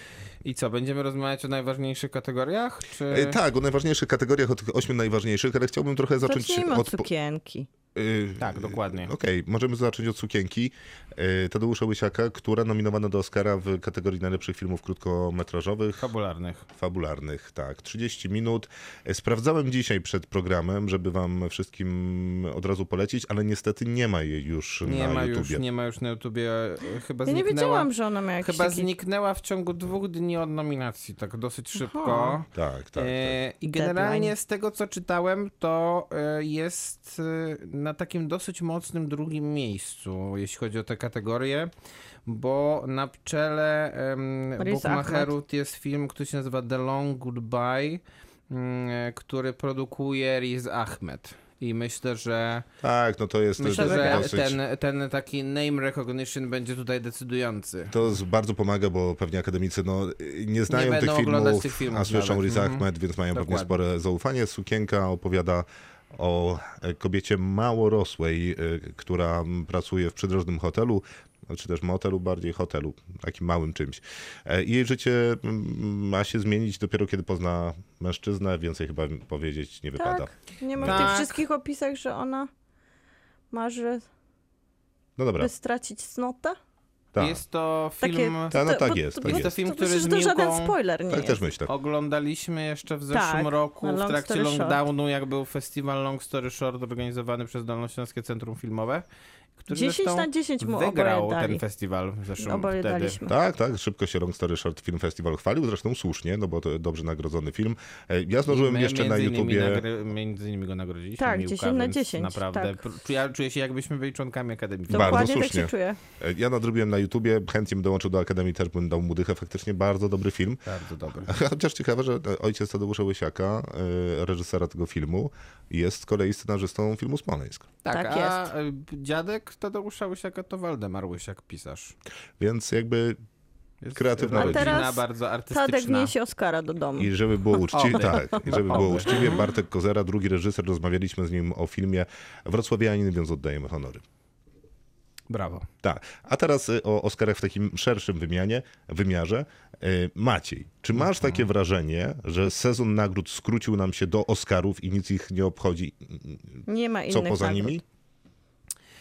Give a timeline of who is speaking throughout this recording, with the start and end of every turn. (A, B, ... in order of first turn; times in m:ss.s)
0:00.4-0:03.4 A
0:03.1-0:07.1 B
0:06.2-0:07.7 C
0:07.9-0:16.1 B
0:08.4-0:09.1 A
0:16.0-0:16.6 A
0:16.7-0:25.6 B
0:24.8-0:41.7 A
0:27.2-0:28.9 C
0:31.8-0:32.4 C
0:32.5-0:33.4 B
0:33.7-0:34.3 C
0:42.2-0:52.6 A
0:44.6-0:45.3 C
0:52.8-0:54.6 B
0:53.6-0:57.9 A
0:53.6-0:54.3 C
0:57.9-1:21.2 B
1:00.7-1:03.7 A
1:20.0-1:22.5 C
1:20.8-1:21.4 A
1:23.5-1:24.1 C
1:25.2-1:25.5 B
1:25.4-1:26.6 C
1:27.1-1:27.4 B
1:27.2-1:28.6 A
1:28.0-1:31.4 C
1:28.5-1:29.5 B
1:29.2-1:30.7 A
1:31.1-1:31.7 B
1:31.6-1:39.0 A
1:33.1-1:34.8 C
1:39.6-1:43.2 A
1:39.7-1:41.6 C
1:42.4-1:43.3 C
1:43.3-1:49.8 B
1:48.5-1:55.3 A
1:51.2-1:52.8 C
1:54.9-2:00.6 B
1:54.9-1:56.0 C
2:00.6-2:01.3 A
2:01.2-2:07.7 B
2:07.8-2:11.9 A
2:07.9-2:08.5 C
2:12.4-2:13.2 B
2:13.8-2:16.1 A
2:13.9-2:14.8 B
2:14.3-2:17.1 C
2:17.0-2:24.0 B
2:17.7-2:19.4 A
2:25.3-2:25.7 A
2:25.8-2:37.8 B
2:36.7-2:37.8 C